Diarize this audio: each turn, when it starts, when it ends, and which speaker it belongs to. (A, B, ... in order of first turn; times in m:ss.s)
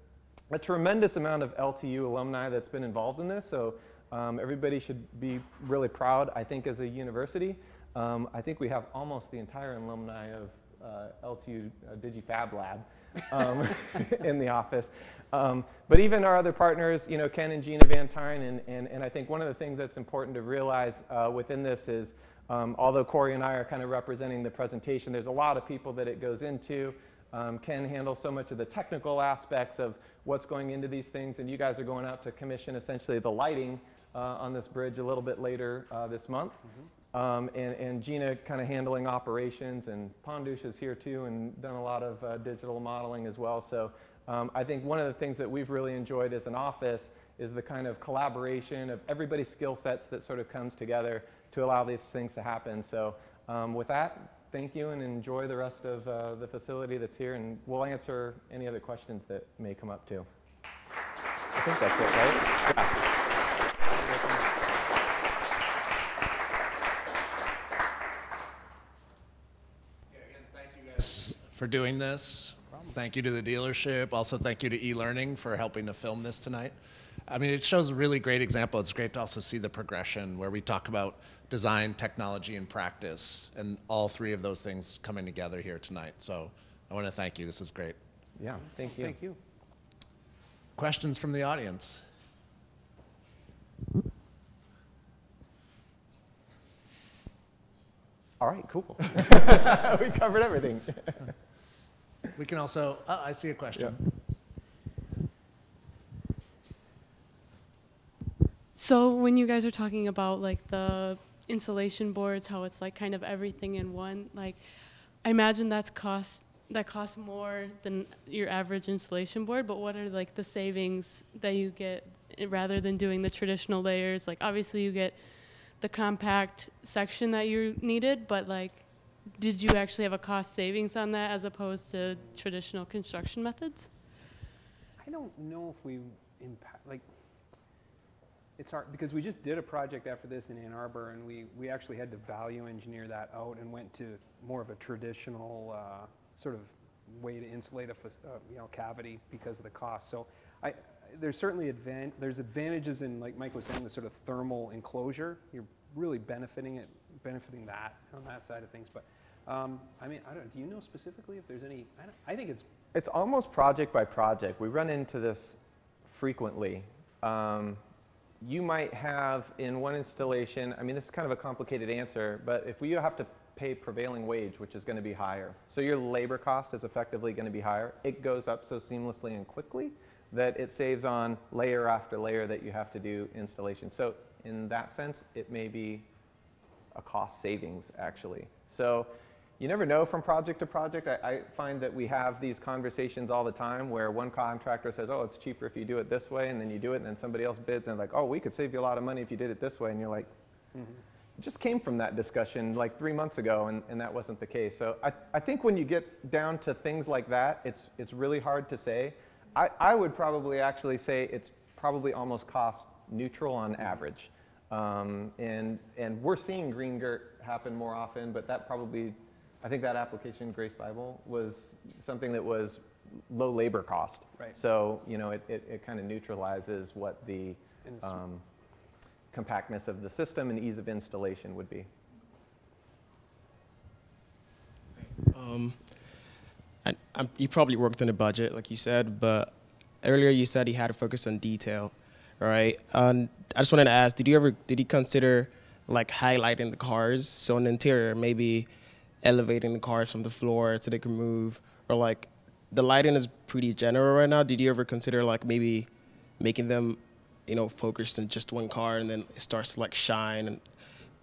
0:00.5-0:36.6 A
0:37.1-1:00.3 A
1:01.6-1:02.9 A
1:04.0-1:04.5 B
1:10.1-1:16.7 C
1:12.7-1:13.0 B
1:17.3-1:28.0 C
1:28.4-1:29.2 A
1:28.8-1:29.4 B
1:30.8-1:32.0 C
1:38.4-1:41.3 A
1:42.4-1:44.0 C
1:48.7-1:54.7 D
1:55.2-2:13.9 D
2:15.0-2:17.0 B
2:18.6-2:42.6 B
2:42.9-2:47.8 A
2:48.4-3:06.1 A
3:06.9-3:20.3 A
3:20.7-3:21.0 B
3:21.4-3:48.4 A
3:47.8-3:48.2 B
3:49.3-3:51.9 A
3:55.1-3:56.0 E
3:56.8-4:08.7 E
4:09.2-4:20.6 E